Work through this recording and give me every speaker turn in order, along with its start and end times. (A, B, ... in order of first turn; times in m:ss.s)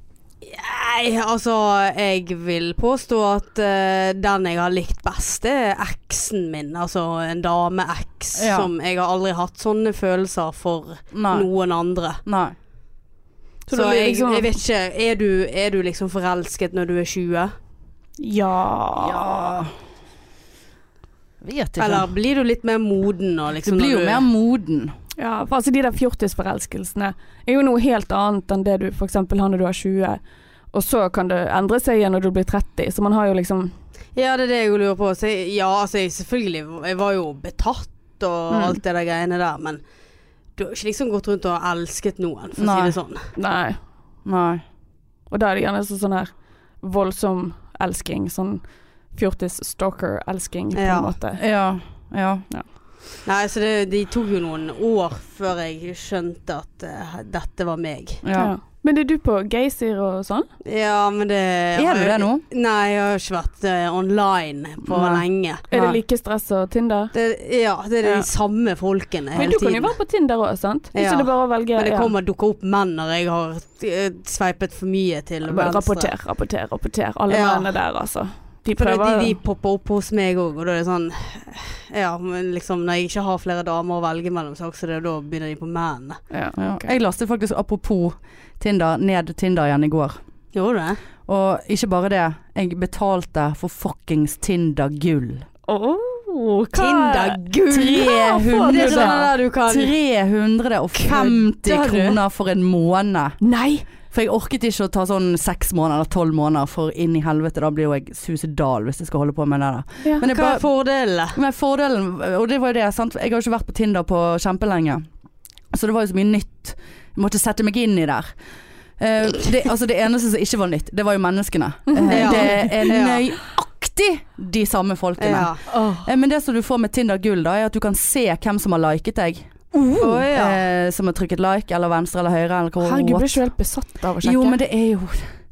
0:00.4-0:12.2 A
0:08.4-0:08.7 B
0:11.1-0:11.5 B
0:12.2-0:12.6 B
0:13.7-0:14.6 C
0:13.7-0:17.5 A
0:18.2-0:19.4 C
0:19.0-0:19.7 B
0:21.4-0:22.1 B
0:21.8-0:24.2 A
0:23.6-0:24.9 B
0:25.2-0:30.2 C
0:30.7-0:33.7 C
0:34.2-0:39.8 A
0:38.5-0:38.8 C
0:40.6-0:43.3 A
0:42.6-0:43.0 B
0:43.4-0:43.8 C
0:44.2-0:44.6 B
0:45.3-0:51.4 C
0:50.8-0:51.1 A
0:51.4-0:52.5 B
0:53.2-0:58.2 A
0:58.2-0:58.5 B
0:58.4-1:00.5 C
1:00.6-1:05.6 A
1:01.8-1:02.4 B
1:04.9-1:06.0 B
1:05.7-1:07.1 C
1:07.1-1:10.0 A
1:08.0-1:08.3 C
1:09.3-1:12.1 C
1:11.0-1:16.1 A
1:15.4-1:19.4 C
1:17.3-1:17.7 A
1:18.8-1:26.2 A
1:26.3-1:26.9 C
1:26.6-1:30.2 B
1:30.5-1:31.0 A
1:31.3-1:35.5 B
1:35.7-1:39.3 C
1:36.7-1:39.9 A
1:37.7-1:43.4 B
1:41.0-1:42.2 A
1:43.4-1:43.8 C
1:44.0-1:50.7 B
1:50.0-1:50.3 C
1:50.2-1:51.4 A
1:51.3-1:55.0 B
1:55.7-1:58.3 B
1:59.0-2:09.5 B
2:01.9-2:02.8 C
2:02.1-2:03.2 A
2:05.2-2:06.0 A
2:09.7-2:10.2 C
2:10.0-2:10.6 A
2:10.2-2:13.4 B
2:12.8-2:14.6 C
2:14.2-2:15.3 B